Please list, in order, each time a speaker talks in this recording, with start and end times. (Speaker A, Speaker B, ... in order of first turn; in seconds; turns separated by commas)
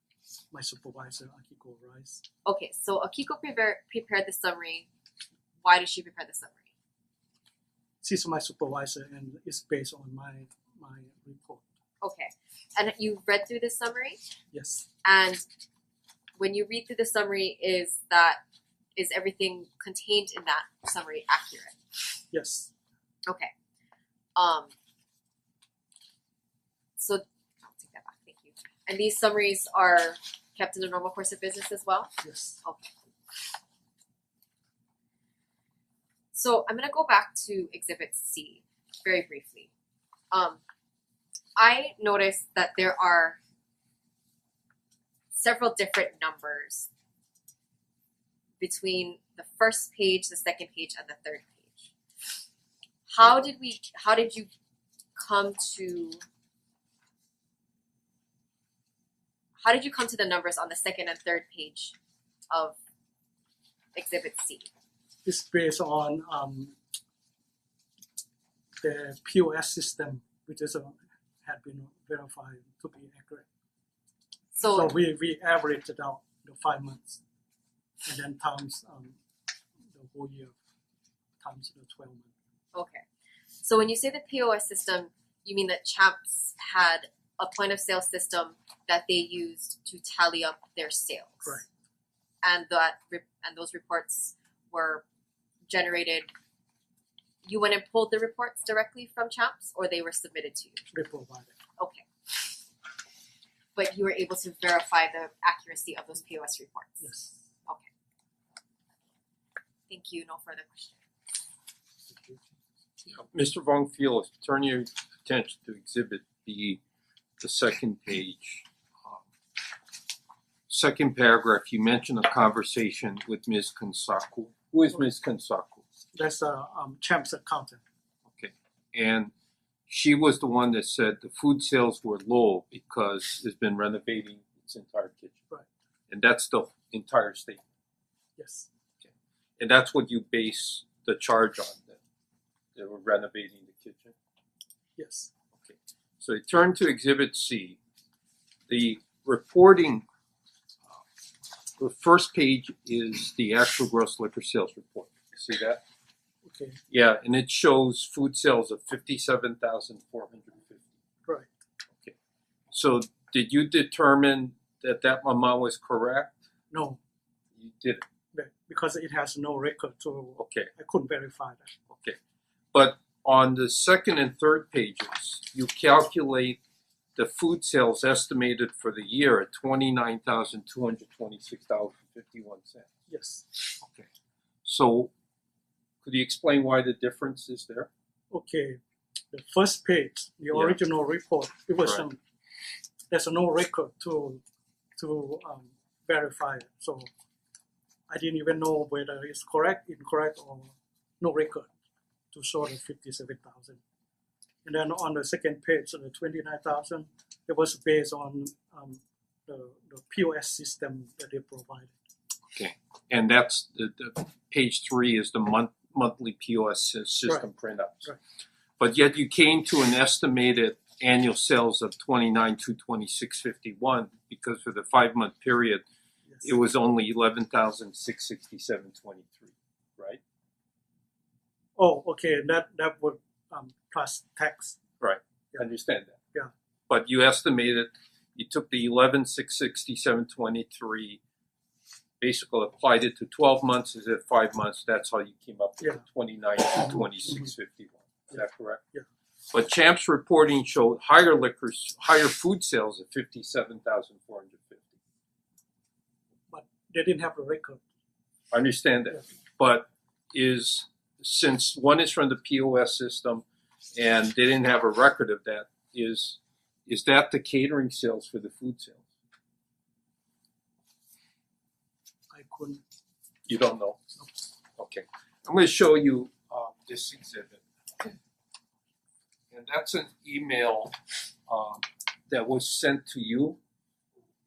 Speaker A: 0.5-2.2, Speaker B: 2.5-4.9, Speaker B: 5.6-6.6, Speaker A: 8.0-11.6, Speaker B: 12.0-14.2, Speaker A: 14.5-14.8, Speaker B: 15.0-15.4, Speaker B: 16.4-18.4, Speaker B: 18.9-21.8, Speaker A: 22.3-22.7, Speaker B: 24.4-24.7, Speaker B: 27.0-32.1, Speaker A: 32.2-32.6, Speaker B: 32.6-32.9, Speaker B: 36.3-39.7, Speaker B: 40.3-40.6, Speaker B: 41.5-43.4, Speaker B: 45.3-46.9, Speaker B: 48.6-51.9, Speaker B: 53.1-54.5, Speaker B: 55.1-56.2, Speaker B: 59.6-62.0, Speaker B: 62.5-62.8, Speaker B: 63.9-64.7, Speaker A: 65.2-66.8, Speaker A: 68.8-73.4, Speaker B: 74.5-74.9, Speaker A: 74.7-77.2, Speaker A: 78.0-79.2, Speaker A: 79.9-80.5, Speaker A: 81.4-82.3, Speaker B: 82.7-83.0, Speaker B: 83.6-91.6, Speaker B: 92.4-95.0, Speaker B: 95.7-96.3, Speaker B: 97.4-100.8, Speaker A: 100.9-101.5, Speaker B: 101.8-102.5, Speaker B: 103.8-107.0, Speaker A: 107.0-107.3, Speaker B: 109.9-111.0, Speaker A: 112.1-112.4, Speaker C: 113.1-116.8, Speaker C: 117.4-119.2, Speaker C: 120.7-125.8, Speaker A: 126.1-127.8, Speaker C: 128.3-129.3, Speaker C: 129.9-135.4, Speaker C: 136.1-137.6, Speaker A: 138.4-138.7, Speaker C: 139.6-142.0, Speaker C: 142.8-144.1, Speaker A: 145.0-145.3, Speaker C: 145.6-147.8, Speaker C: 148.7-150.0, Speaker C: 151.8-155.8, Speaker A: 156.4-156.8, Speaker C: 156.9-160.9, Speaker C: 162.7-166.4, Speaker A: 166.7-167.0, Speaker C: 167.6-168.0, Speaker A: 168.3-171.7, Speaker C: 170.4-170.7, Speaker C: 171.9-172.2, Speaker C: 172.7-176.6, Speaker C: 177.2-182.9, Speaker A: 183.1-183.4, Speaker C: 183.8-184.1, Speaker C: 184.6-185.1, Speaker C: 186.0-187.9, Speaker A: 188.3-188.8, Speaker A: 189.3-192.2, Speaker C: 190.5-190.8, Speaker A: 193.1-194.4, Speaker A: 195.0-197.1, Speaker A: 198.1-201.7, Speaker A: 202.3-203.8, Speaker A: 204.6-211.9, Speaker C: 212.5-218.1, Speaker C: 218.8-225.8, Speaker C: 226.4-230.2, Speaker A: 231.8-234.8, Speaker C: 235.0-236.2, Speaker C: 236.9-241.2, Speaker C: 242.2-248.8, Speaker C: 249.5-255.0, Speaker A: 256.5-257.8, Speaker C: 258.5-269.1, Speaker A: 272.3-272.8, Speaker C: 273.5-274.0, Speaker C: 274.8-278.1, Speaker C: 279.5-283.6